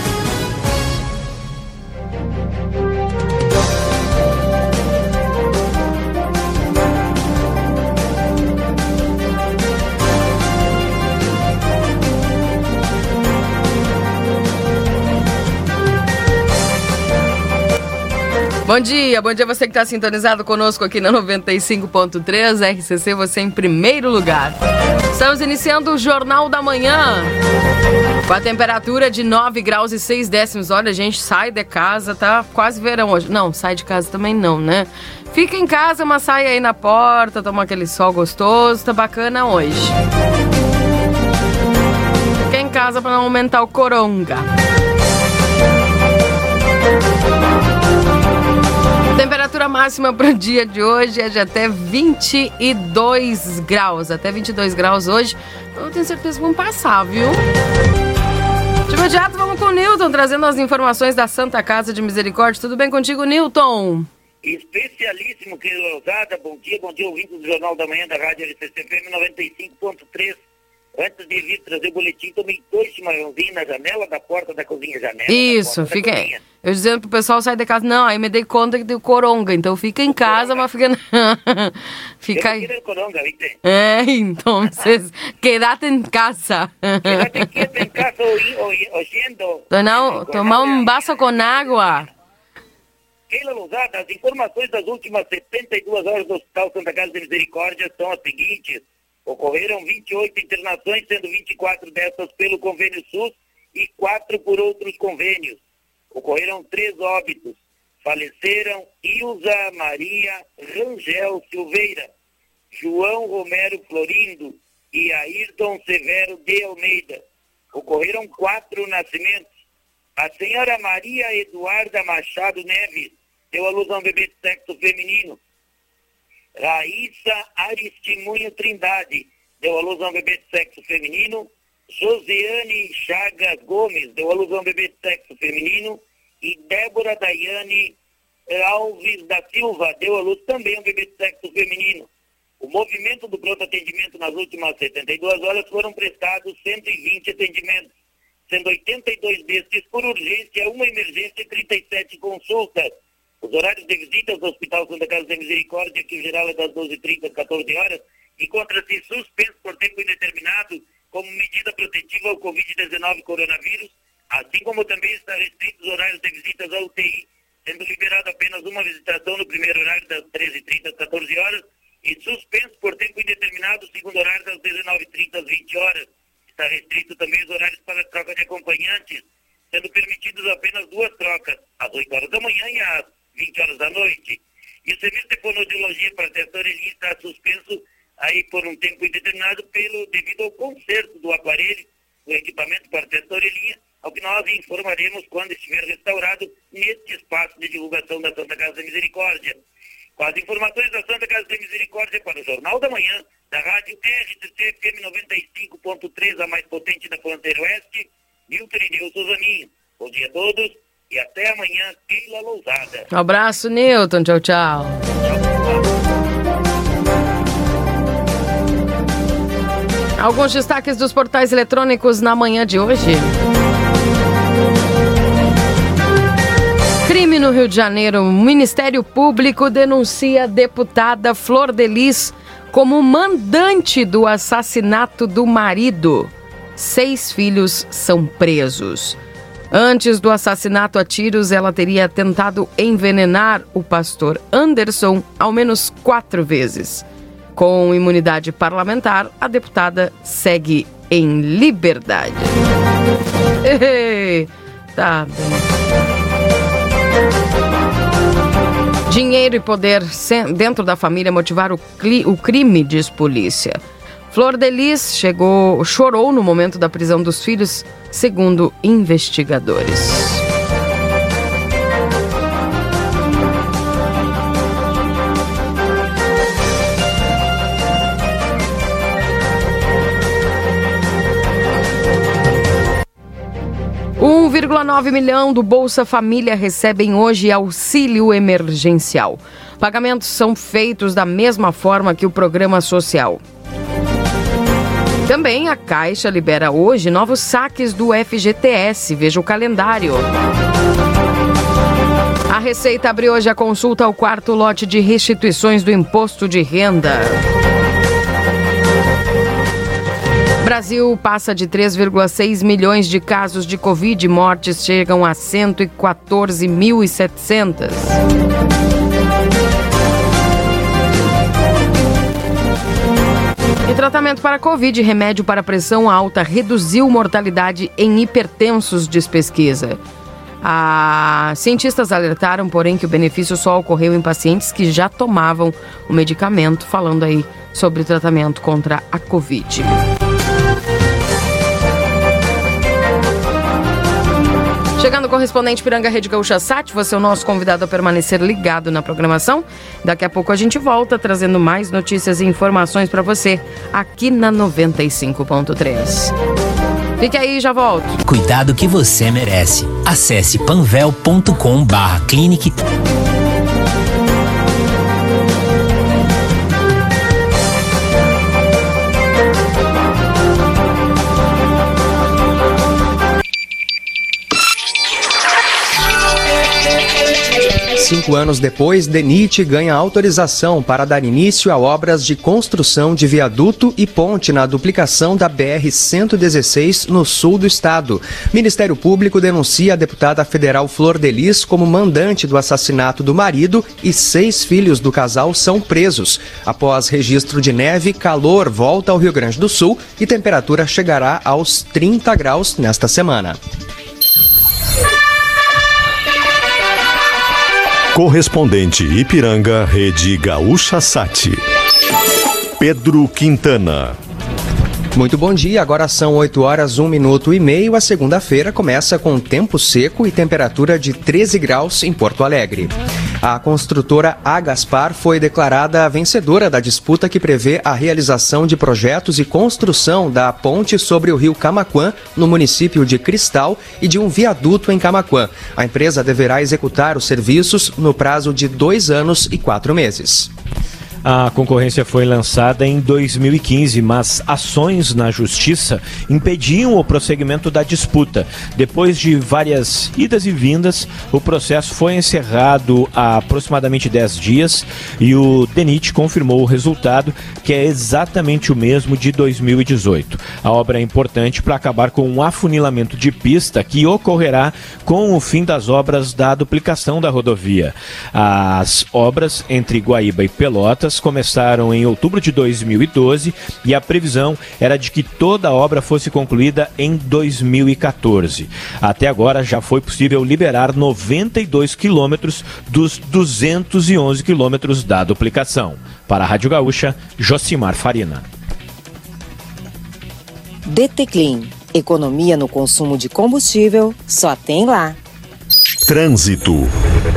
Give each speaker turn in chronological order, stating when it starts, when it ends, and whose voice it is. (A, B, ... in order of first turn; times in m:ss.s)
0:18.6-0:24.6 A
0:25.1-0:27.3 A
0:28.2-0:39.9 A
0:42.4-0:44.5 A
0:49.1-0:57.4 A
0:58.9-1:04.1 A
1:04.4-1:10.4 B
1:11.0-1:16.4 B
1:15.3-1:22.7 A
1:20.2-1:20.6 B
1:22.3-1:23.6 B
1:23.6-1:27.4 A
1:27.0-1:30.9 B
1:29.7-1:32.1 A
1:33.3-1:45.6 B
1:46.1-1:52.1 B
1:52.7-1:57.2 B
1:57.7-1:59.5 B
2:00.2-2:05.4 B
2:06.6-2:18.0 B
2:18.5-2:22.1 B
2:22.6-2:27.9 B
2:28.5-3:19.6 B
3:20.2-3:33.1 B
3:33.1-3:35.0 A
3:35.2-3:35.8 B
3:40.2-3:43.3 A
3:47.0-3:59.2 A
3:59.7-4:12.5 A
4:13.6-4:15.7 A
4:19.1-4:23.8 A
4:24.3-4:30.4 A
4:44.2-4:53.4 A
4:55.3-5:00.3 A
5:02.5-5:07.4 A
5:10.6-5:18.2 A
5:23.9-5:30.0 A
5:30.6-5:40.0 A
5:45.0-5:56.3 A
5:57.2-5:58.2 A
5:58.2-6:02.8 C
6:17.9-6:43.6 D
6:48.1-6:51.6 E
6:52.8-6:54.2 E
6:55.1-7:20.5 D
7:21.2-8:08.4 F
8:10.9-8:15.2 G
8:16.1-8:16.9 E